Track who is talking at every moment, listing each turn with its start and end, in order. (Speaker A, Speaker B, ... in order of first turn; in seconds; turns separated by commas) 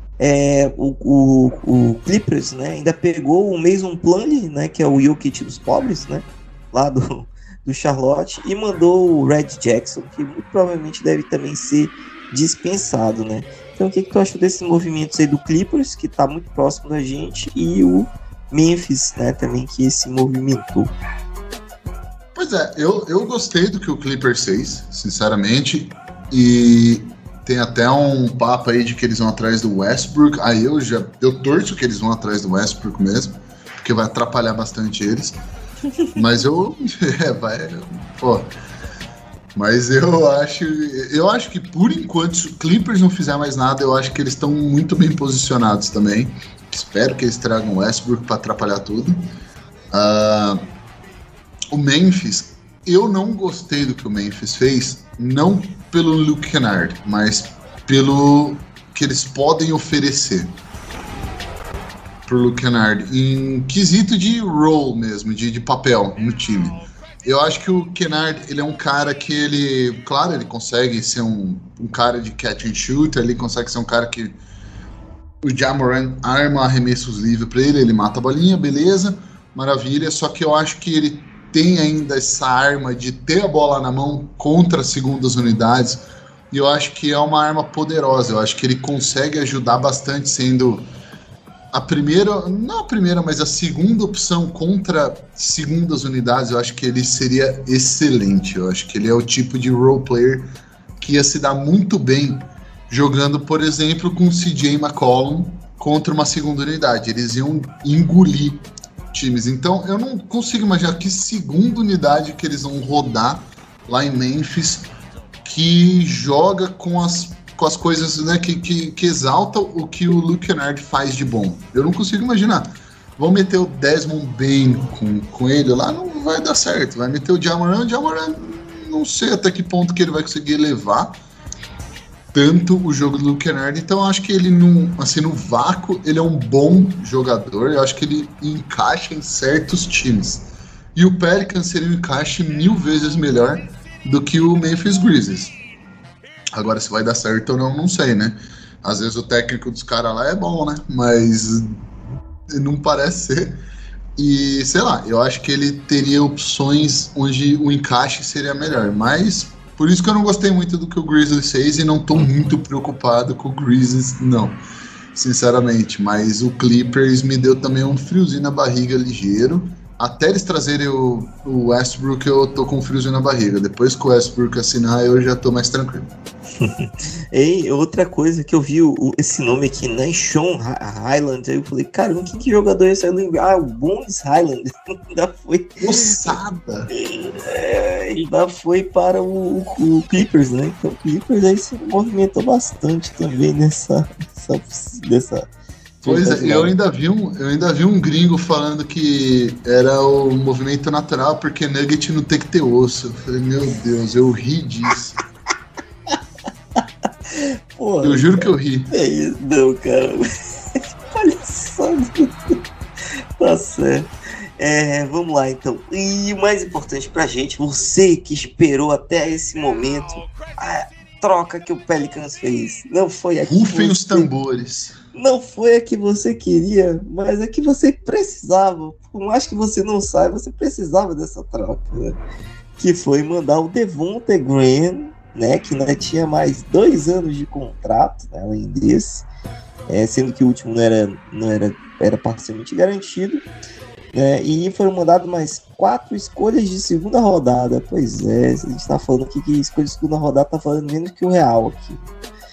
Speaker A: 0.2-20.9, Speaker B: 22.3-35.4, Speaker B: 36.1-38.5, Speaker B: 39.5-49.2, Speaker B: 49.9-50.6, Speaker B: 51.7-60.5, Speaker B: 62.2-74.4, Speaker B: 75.4-90.9, Speaker B: 91.7-114.9, Speaker B: 115.4-131.2, Speaker B: 132.3-145.6, Speaker B: 146.5-151.7, Speaker B: 152.5-153.6, Speaker B: 154.2-164.6, Speaker B: 165.1-176.1, Speaker A: 176.6-186.4, Speaker B: 185.8-186.9, Speaker A: 186.9-195.5, Speaker A: 196.0-196.7, Speaker B: 196.0-205.2, Speaker A: 207.3-212.6, Speaker B: 208.0-208.9, Speaker A: 213.4-224.3, Speaker B: 223.5-224.9, Speaker A: 225.1-232.2, Speaker A: 232.8-239.2, Speaker A: 239.9-243.4, Speaker A: 244.1-252.0